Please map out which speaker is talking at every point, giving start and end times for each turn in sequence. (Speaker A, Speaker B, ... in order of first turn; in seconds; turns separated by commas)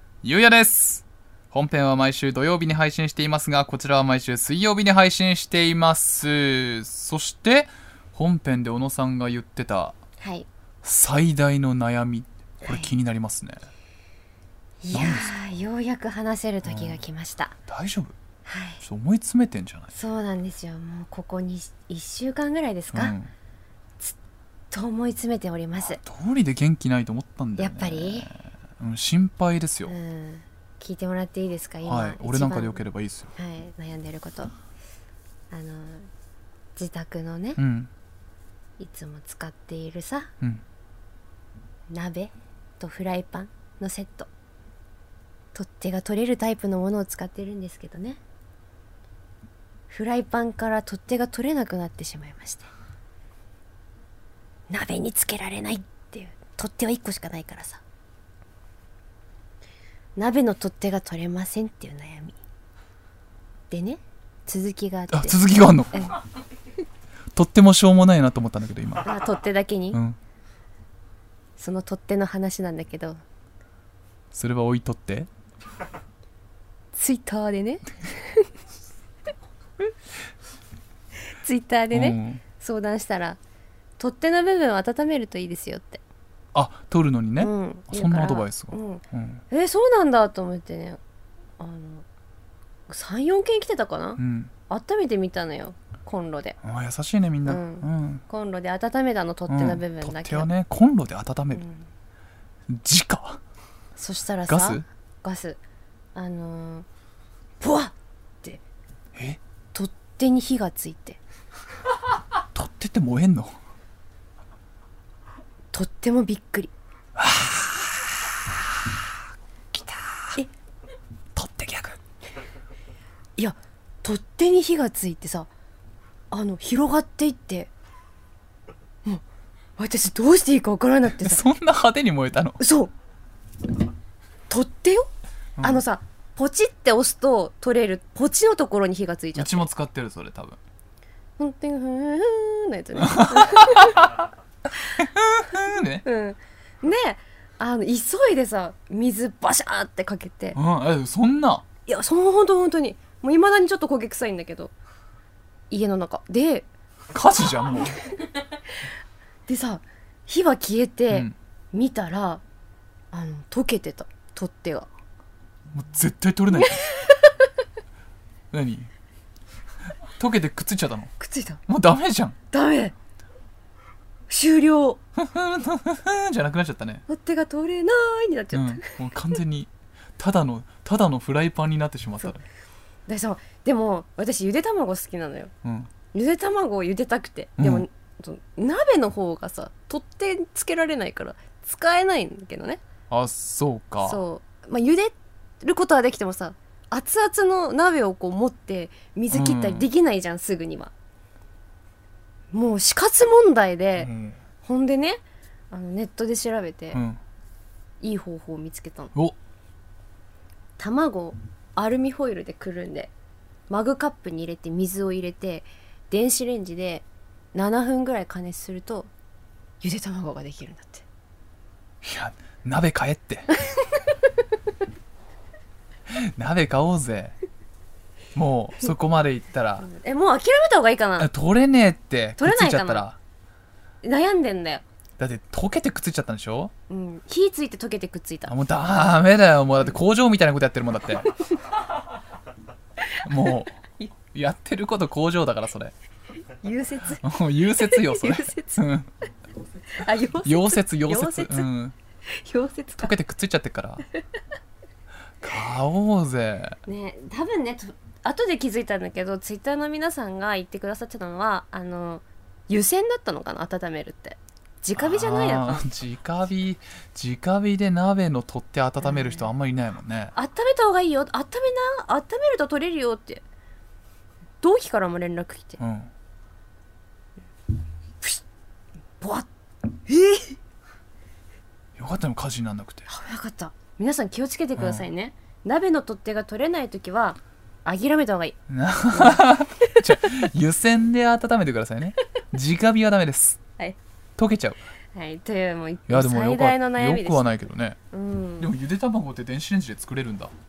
Speaker A: 0.2-10.0, Speaker B: 10.2-10.5, Speaker A: 10.8-13.6, Speaker B: 12.6-12.9, Speaker B: 14.8-17.5, Speaker A: 14.9-15.3, Speaker A: 16.6-17.0, Speaker A: 17.7-18.1, Speaker B: 18.4-18.8, Speaker A: 18.8-19.9, Speaker B: 19.9-23.1, Speaker A: 22.9-23.3, Speaker B: 24.7-26.0, Speaker A: 25.9-29.9, Speaker B: 27.6-28.3, Speaker B: 29.9-32.8, Speaker A: 31.8-33.3, Speaker B: 33.4-34.5, Speaker B: 35.5-36.1, Speaker B: 36.8-37.6, Speaker A: 37.6-37.9, Speaker B: 38.8-40.3, Speaker B: 41.9-44.3, Speaker B: 45.5-48.2, Speaker B: 49.9-52.7, Speaker B: 54.7-57.8, Speaker B: 60.1-62.4, Speaker B: 63.7-65.4, Speaker A: 65.1-66.1, Speaker A: 67.3-69.1, Speaker B: 69.0-70.0, Speaker A: 69.9-70.2, Speaker B: 71.6-73.2, Speaker A: 74.3-75.3, Speaker B: 76.9-78.5, Speaker B: 81.3-83.4, Speaker A: 81.9-82.4, Speaker B: 84.0-86.0, Speaker A: 86.5-89.4, Speaker B: 87.4-91.0, Speaker B: 91.6-92.0, Speaker B: 92.9-96.6, Speaker A: 94.2-94.5, Speaker A: 96.6-98.2, Speaker B: 97.5-100.5, Speaker A: 99.5-101.6, Speaker B: 101.5-101.9, Speaker A: 102.7-103.4, Speaker B: 104.0-105.6, Speaker A: 104.5-104.8, Speaker B: 106.1-106.8, Speaker B: 107.6-108.6, Speaker B: 109.7-111.2, Speaker A: 112.5-113.5, Speaker B: 115.7-116.7, Speaker A: 117.2-117.6, Speaker A: 119.7-120.4, Speaker A: 121.3-122.0, Speaker B: 123.4-125.5, Speaker B: 126.3-127.7, Speaker B: 129.8-131.4, Speaker A: 131.2-132.6, Speaker B: 132.6-132.9, Speaker B: 134.5-139.7, Speaker A: 135.6-135.8, Speaker A: 139.3-140.6, Speaker B: 141.4-144.2, Speaker A: 143.0-144.0, Speaker A: 144.9-146.0, Speaker B: 146.0-150.6, Speaker A: 150.5-151.6, Speaker B: 151.8-154.7, Speaker B: 155.7-156.7, Speaker A: 157.1-158.0, Speaker B: 157.8-158.1, Speaker B: 159.5-162.4, Speaker B: 163.1-164.9, Speaker A: 165.7-166.8, Speaker B: 166.5-167.3, Speaker A: 168.5-168.9, Speaker A: 170.2-171.1, Speaker B: 171.2-171.6, Speaker A: 171.7-172.3, Speaker B: 172.5-172.9, Speaker B: 174.3-175.0, Speaker A: 175.2-177.0, Speaker B: 177.1-179.4, Speaker A: 178.5-182.4, Speaker B: 183.1-185.5, Speaker A: 185.6-185.9, Speaker B: 186.1-192.8, Speaker A: 187.6-187.8, Speaker A: 193.1-194.2, Speaker B: 194.0-200.9, Speaker A: 199.3-199.9, Speaker B: 202.5-204.1, Speaker A: 204.0-204.4, Speaker B: 204.6-207.0, Speaker A: 206.9-207.2, Speaker B: 208.0-209.1, Speaker B: 210.8-213.1, Speaker B: 213.7-219.1, Speaker B: 219.8-221.0, Speaker A: 222.0-223.5, Speaker A: 226.1-227.3, Speaker A: 228.3-229.9, Speaker B: 229.8-231.3, Speaker A: 231.2-233.2, Speaker B: 232.4-233.1, Speaker B: 234.0-234.8, Speaker A: 235.2-236.7, Speaker B: 236.9-238.5, Speaker A: 238.5-241.3, Speaker B: 243.1-244.1, Speaker A: 243.2-243.8, Speaker A: 244.3-245.9, Speaker B: 246.6-247.2, Speaker A: 247.2-249.1, Speaker B: 247.8-248.8, Speaker B: 249.9-251.7, Speaker A: 250.4-251.9, Speaker B: 252.3-253.1, Speaker A: 253.0-254.0, Speaker A: 255.4-256.8, Speaker B: 256.9-265.8, Speaker A: 264.9-270.3, Speaker B: 269.0-269.5, Speaker B: 270.3-273.4, Speaker B: 274.6-275.8, Speaker A: 275.8-276.1, Speaker B: 279.2-279.5, Speaker B: 280.1-280.6, Speaker A: 282.0-283.1, Speaker B: 283.1-288.6, Speaker A: 284.8-285.1, Speaker A: 288.7-293.6, Speaker B: 289.1-290.4, Speaker A: 294.4-294.8, Speaker B: 295.1-297.5, Speaker A: 296.1-298.0, Speaker B: 298.1-298.7, Speaker A: 298.6-300.5